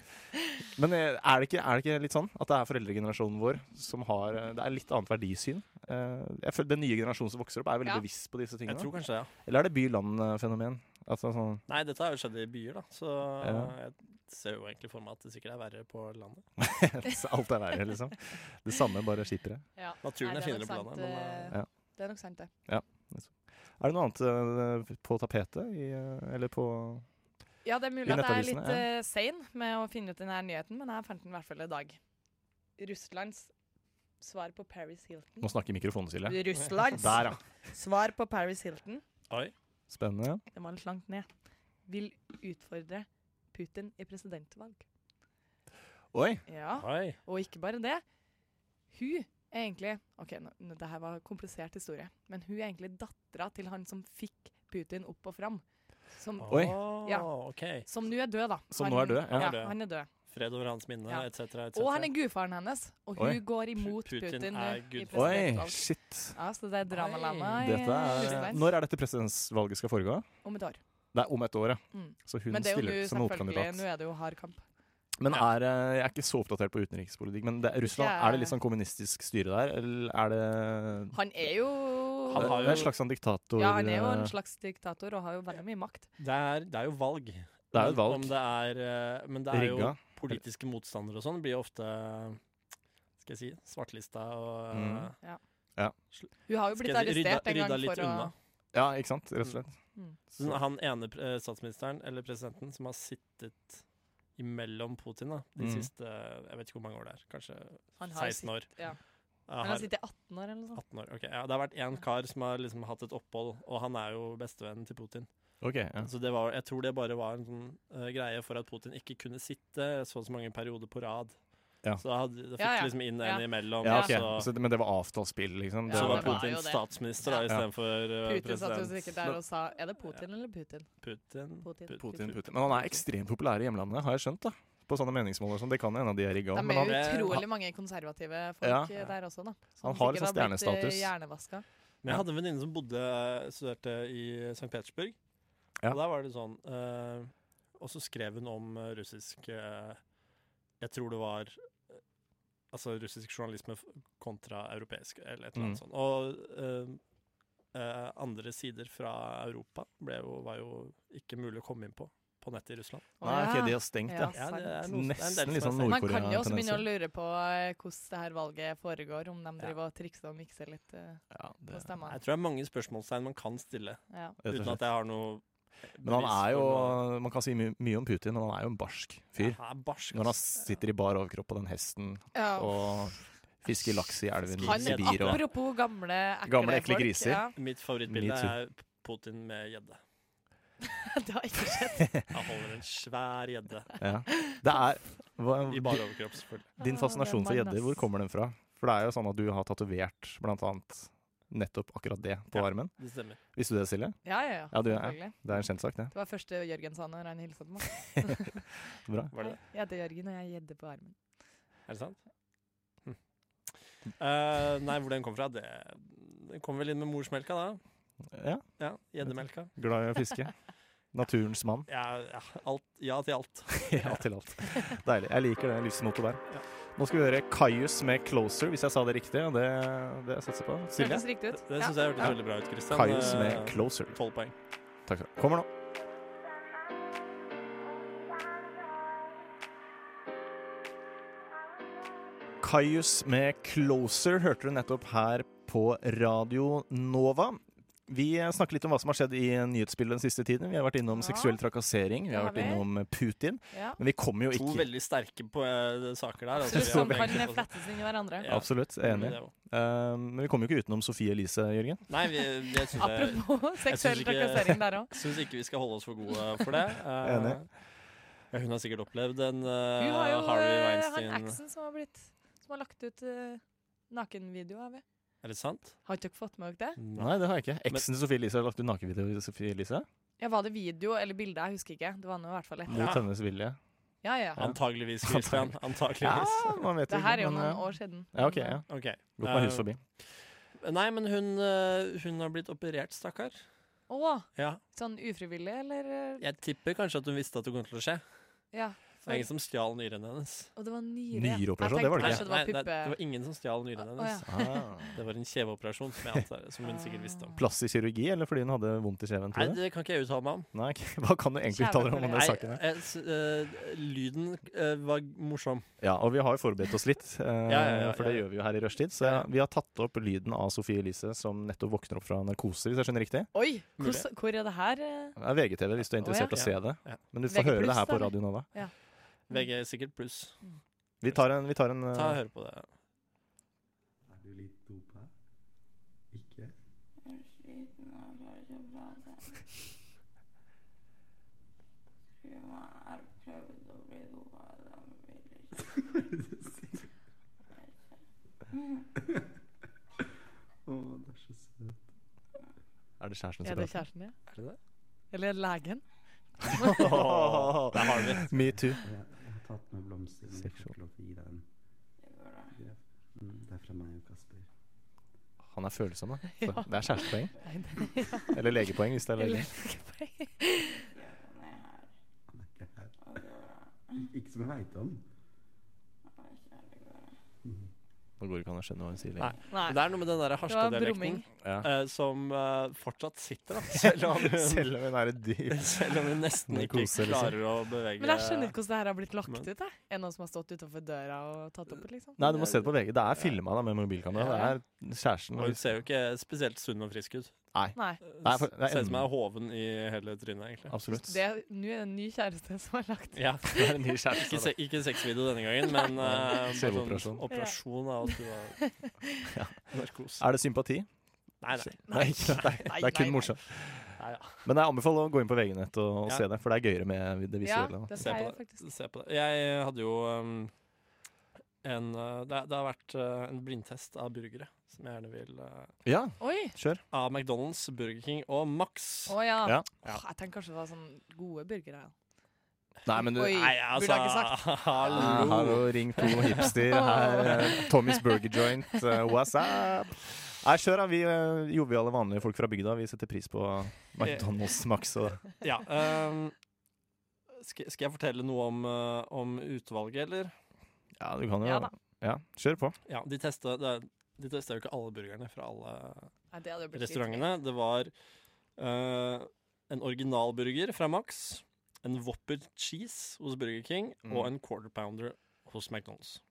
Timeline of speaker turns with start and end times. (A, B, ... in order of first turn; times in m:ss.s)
0:00.4-0:00.6 A
0:00.7-0:08.9 B
0:08.7-0:09.3 C
0:09.4-0:11.6 B
0:11.7-0:16.5 C
0:13.4-0:13.8 B
0:16.6-0:19.6 B
0:19.8-0:22.5 A
0:20.0-0:21.5 C
0:22.7-0:27.0 B
0:27.6-0:32.0 A
0:28.0-0:28.9 B
0:32.8-0:33.5 A
0:34.2-0:35.5 A
0:35.4-0:37.4 B
0:36.2-0:39.0 A
0:39.9-0:40.4 B
0:40.5-0:41.3 A
0:41.9-0:44.8 A
0:46.1-0:46.4 B
0:46.5-0:48.0 A
0:46.8-0:47.2 C
0:48.9-0:55.6 A
0:56.2-0:57.3 A
0:56.4-0:57.9 C
0:56.5-0:56.8 B
0:57.8-1:00.1 A
0:58.7-0:59.6 B
0:59.3-0:59.8 C
1:00.3-1:02.1 C
1:01.1-1:08.6 A
1:03.8-1:05.6 C
1:05.1-1:06.4 B
1:06.9-1:08.5 C
1:07.6-1:10.3 B
1:10.4-1:10.8 A
1:11.1-1:13.8 B
1:11.9-1:14.6 A
1:15.2-1:21.2 B
1:17.8-1:18.6 A
1:21.1-1:22.9 A
1:22.3-1:22.9 C
1:22.3-1:24.3 B
1:23.6-1:26.1 A
1:26.2-1:32.4 C
1:27.7-1:28.4 B
1:29.5-1:30.4 B
1:33.2-1:35.2 C
1:34.7-1:35.1 B
1:36.2-1:38.3 C
1:36.5-1:38.3 A
1:38.7-1:39.7 B
1:40.4-1:43.8 C
1:44.4-1:48.7 C
1:45.6-1:45.9 B
1:48.0-1:49.0 A
1:49.5-1:49.9 C
1:49.6-1:50.8 A
1:50.8-1:55.3 C
1:55.6-1:56.1 B
1:56.0-2:01.4 C
2:02.0-2:04.5 C
2:02.6-2:04.2 A
2:03.8-2:06.6 B
2:05.9-2:07.6 A
2:05.9-2:09.1 C
2:08.2-2:10.9 A
2:11.0-2:12.4 C
2:11.6-2:13.0 A
2:12.0-2:17.4 B
2:16.5-2:21.6 A
2:16.8-2:17.4 C
2:18.6-2:18.9 B
2:19.8-2:21.1 B
2:22.0-2:25.2 C
2:25.9-2:30.0 C
2:30.8-2:31.6 C
2:32.7-2:37.0 C
2:35.6-2:35.8 B
2:37.7-2:43.1 C
2:43.2-2:44.8 A
2:43.2-2:46.9 B
2:44.3-2:46.0 C
2:45.8-2:52.2 A
2:51.3-2:51.8 B
2:52.1-2:55.4 C
2:54.1-2:54.4 A
2:54.4-2:54.8 B
2:55.9-2:57.0 C
2:56.0-2:59.6 B
2:59.4-3:00.7 C
3:00.1-3:05.4 B
3:02.3-3:02.9 A
3:04.6-3:05.4 C
3:04.6-3:07.5 A
3:06.5-3:07.5 B
3:07.6-3:10.0 C
3:08.1-3:08.6 B
3:10.9-3:12.1 A
3:12.0-3:12.2 B
3:12.3-3:13.9 C
3:14.0-3:16.0 B
3:15.7-3:16.7 C
3:16.8-3:22.9 B
3:16.8-3:18.0 A
3:22.5-3:23.4 C
3:23.5-3:26.1 B
3:24.2-3:25.4 A
3:26.1-3:28.6 A
3:29.0-3:29.3 B
3:29.3-3:29.6 C
3:29.4-3:31.2 A
3:31.9-3:32.2 C
3:34.2-3:37.8 C
3:38.3-3:38.6 B
3:38.8-3:39.7 C
3:39.2-3:40.5 B
3:41.1-3:41.9 B
3:41.9-3:44.2 C
3:43.9-3:46.4 B
3:47.0-3:51.3 B
3:51.0-3:52.3 A
3:51.6-3:54.5 C
3:52.9-3:54.2 B
3:55.1-3:55.7 B
4:02.6-4:14.9 B
4:11.1-4:11.6 A
4:12.3-4:12.9 A
4:13.7-4:14.0 A
4:14.5-4:17.7 C
4:16.7-4:18.5 A
4:16.7-4:17.4 B
4:18.4-4:19.5 C
4:18.5-4:22.1 B
4:22.1-4:27.7 C
4:23.0-4:25.2 A
4:27.2-4:27.6 B
4:28.5-4:31.6 C
4:30.0-4:35.0 A
4:35.4-4:36.0 C
4:36.0-4:37.0 A
4:37.0-4:37.4 C
4:37.2-4:40.1 B
4:40.4-4:43.2 A
4:42.9-4:43.8 B
4:43.0-4:43.2 C
4:44.2-4:44.7 A
4:44.6-4:46.8 C
4:44.6-4:50.0 B
4:47.1-4:48.8 A
4:48.9-4:50.1 C
4:50.8-4:53.6 C
4:54.1-4:56.4 A
4:54.6-4:54.8 C
4:56.4-4:58.2 C
4:58.7-4:59.5 A
4:59.2-5:00.7 C
5:00.8-5:03.2 A
5:01.3-5:02.5 B
5:02.2-5:04.5 C
5:04.0-5:04.9 A
5:04.5-5:05.1 B
5:05.1-5:07.6 C
5:06.9-5:07.6 A
5:07.6-5:09.8 B
5:09.5-5:10.7 C
5:10.7-5:12.8 B
5:11.7-5:12.6 A
5:12.3-5:15.9 C
5:16.0-5:23.5 B
5:17.7-5:18.5 C
5:19.2-5:19.5 C
5:23.5-5:25.4 A
5:24.0-5:24.3 C
5:25.4-5:28.7 B
5:26.2-5:26.6 A
5:26.5-5:27.2 C
5:27.5-5:28.9 A
5:29.5-5:30.6 C
5:31.2-5:32.4 B
5:32.1-5:32.9 C
5:34.3-5:35.3 D
5:36.3-5:36.7 D
5:46.0-5:47.1 D
5:50.9-5:52.0 D
5:53.2-5:54.0 B
5:53.6-5:54.4 A
5:54.5-5:54.8 C
5:55.3-5:56.0 A
5:56.6-5:57.0 A
5:56.7-5:59.0 B
5:56.9-5:58.5 C
5:59.0-6:01.6 D
6:00.6-6:00.9 B
6:02.7-6:04.7 D
6:05.7-6:07.5 B
6:06.6-6:08.6 A
6:08.5-6:09.7 B
6:09.4-6:11.1 A
6:12.5-6:13.4 D
6:14.2-6:15.2 D
6:18.4-6:19.6 B
6:19.4-6:24.9 C
6:19.7-6:20.0 A
6:20.7-6:21.4 A
6:21.6-6:21.9 B
6:24.0-6:26.0 B
6:25.7-6:28.8 C
6:26.7-6:27.6 B
6:28.2-6:32.8 A
6:32.4-6:35.9 B
6:34.3-6:34.7 C
6:34.4-6:34.7 A
6:35.6-6:37.5 C
6:37.7-6:39.3 B
6:38.0-6:38.2 A
6:38.2-6:41.0 C
6:40.9-6:41.4 B
6:41.2-6:43.9 A
6:43.4-6:43.8 C
6:43.7-6:44.7 B
6:44.4-6:48.9 C
6:46.2-6:47.4 B
6:47.5-6:49.4 A
6:49.5-6:51.1 B
6:49.9-6:50.4 C
6:51.6-6:52.8 C
6:51.8-6:58.4 B
6:52.1-6:53.5 A
6:54.2-6:54.7 C
6:57.6-6:58.9 A
6:58.1-7:00.7 C
7:01.8-7:05.9 C
7:06.0-7:07.0 B
7:06.4-7:06.8 A
7:07.1-7:09.4 C
7:09.3-7:12.1 A
7:13.0-7:13.6 B
7:13.1-7:15.6 A
7:13.4-7:16.7 C
7:15.1-7:25.5 B
7:16.2-7:18.2 A
7:24.2-7:24.5 C
7:25.6-7:26.5 C
7:27.6-7:30.5 C
7:31.2-7:33.0 B
7:31.6-7:31.9 A
7:33.1-7:36.3 C
7:36.5-7:37.5 A
7:37.0-7:38.1 C
7:38.8-7:46.4 C
7:44.2-7:44.5 B